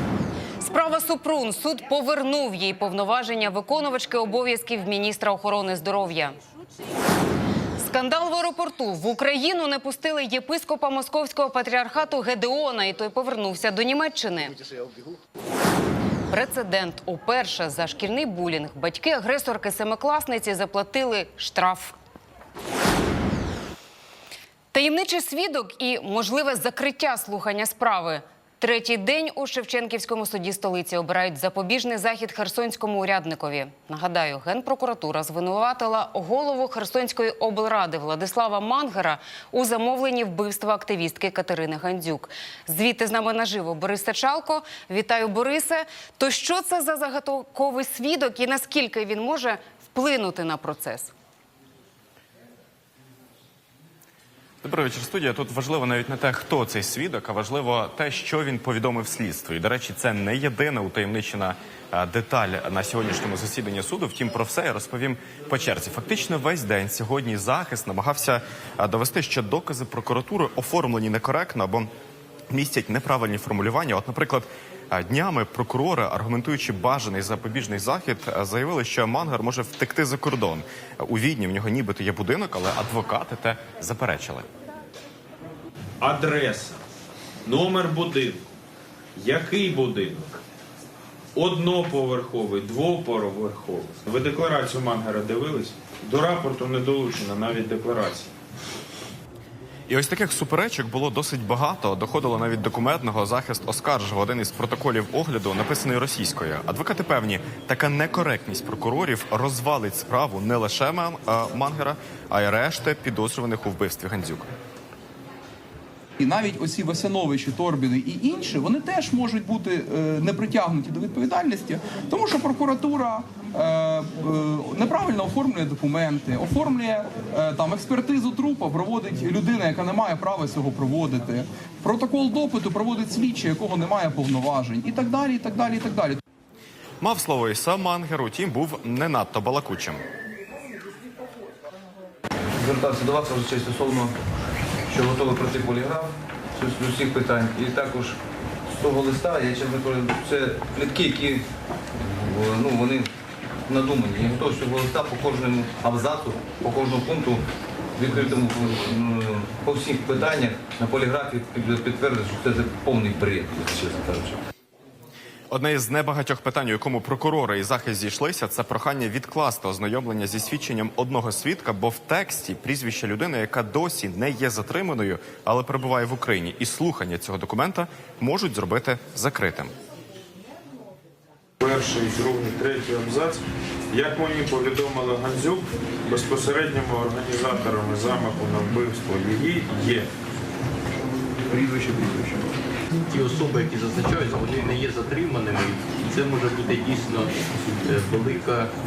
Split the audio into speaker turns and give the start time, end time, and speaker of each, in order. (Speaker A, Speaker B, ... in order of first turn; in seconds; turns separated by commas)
Speaker A: 0.6-6.4, Speaker A: 7.8-14.6, Speaker A: 16.3-21.9, Speaker A: 24.7-51.1, Speaker B: 54.6-71.9, Speaker B: 72.5-84.5, Speaker C: 86.0-86.8, Speaker C: 87.5-88.4, Speaker C: 89.2-90.3, Speaker C: 91.4-98.3, Speaker B: 99.9-114.5, Speaker D: 116.2-136.2, Speaker B: 137.0-140.0, Speaker E: 142.5-144.2, Speaker E: 144.9-148.2, Speaker E: 148.7-151.4, Speaker E: 152.0-153.1, Speaker E: 153.7-157.4, Speaker E: 158.0-164.4, Speaker B: 165.5-179.7, Speaker C: 181.6-183.4, Speaker C: 183.9-190.1, Speaker F: 193.1-198.7